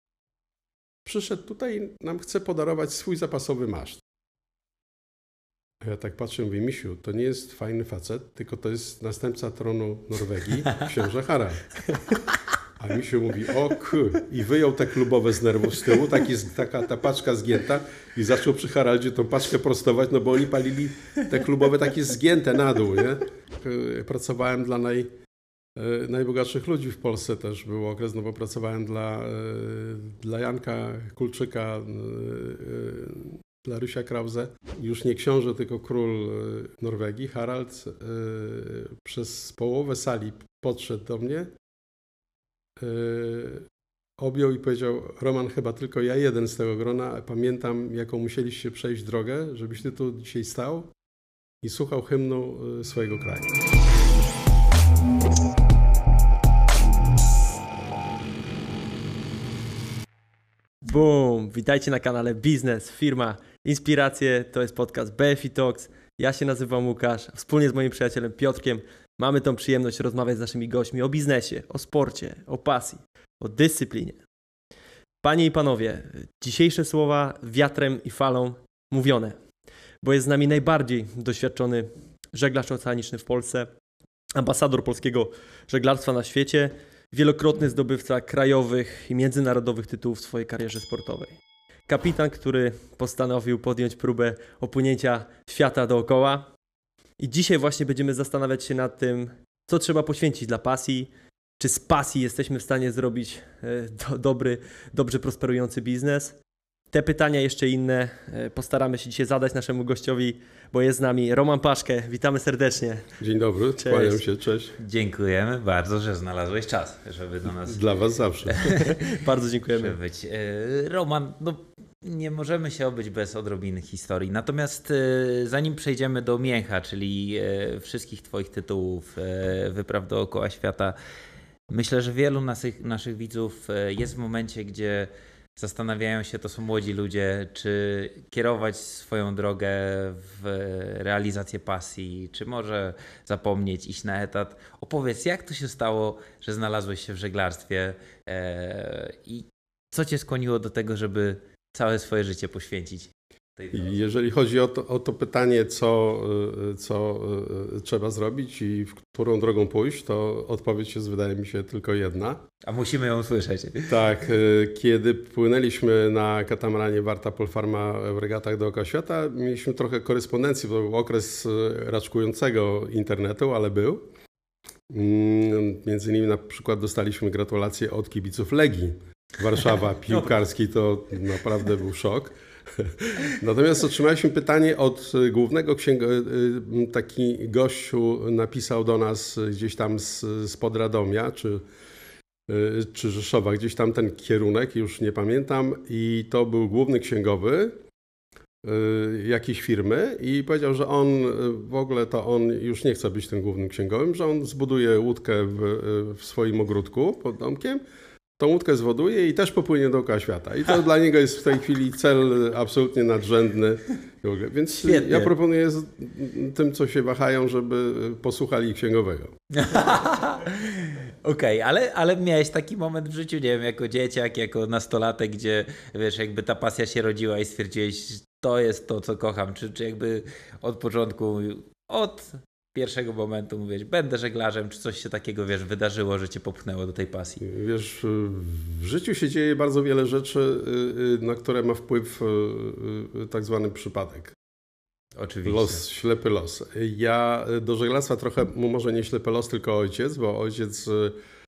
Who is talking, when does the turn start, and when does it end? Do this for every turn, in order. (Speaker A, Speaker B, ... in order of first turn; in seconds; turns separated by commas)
Speaker A: 1.1-4.0, Speaker A: 5.8-11.7, Speaker A: 12.8-25.1, Speaker A: 25.8-41.5, Speaker A: 42.8-43.7, Speaker A: 44.2-50.9, Speaker A: 51.6-53.5, Speaker B: 60.8-74.2, Speaker B: 75.2-79.4, Speaker B: 80.0-83.7, Speaker B: 84.4-96.5, Speaker B: 97.2-106.4, Speaker B: 106.9-113.1, Speaker A: 113.2-114.8, Speaker B: 113.8-114.2, Speaker C: 114.8-117.8, Speaker A: 117.7-118.6, Speaker C: 118.5-119.0, Speaker B: 118.6-120.0, Speaker C: 119.8-131.0, Speaker C: 131.7-154.0, Speaker A: 153.7-162.4, Speaker C: 162.6-164.1, Speaker A: 163.9-174.0, Speaker A: 174.9-191.6, Speaker A: 192.5-197.8, Speaker A: 198.6-207.8, Speaker A: 208.4-219.3, Speaker C: 214.8-215.3, Speaker C: 219.5-237.4, Speaker A: 237.4-244.4, Speaker C: 245.2-245.8, Speaker A: 245.4-251.2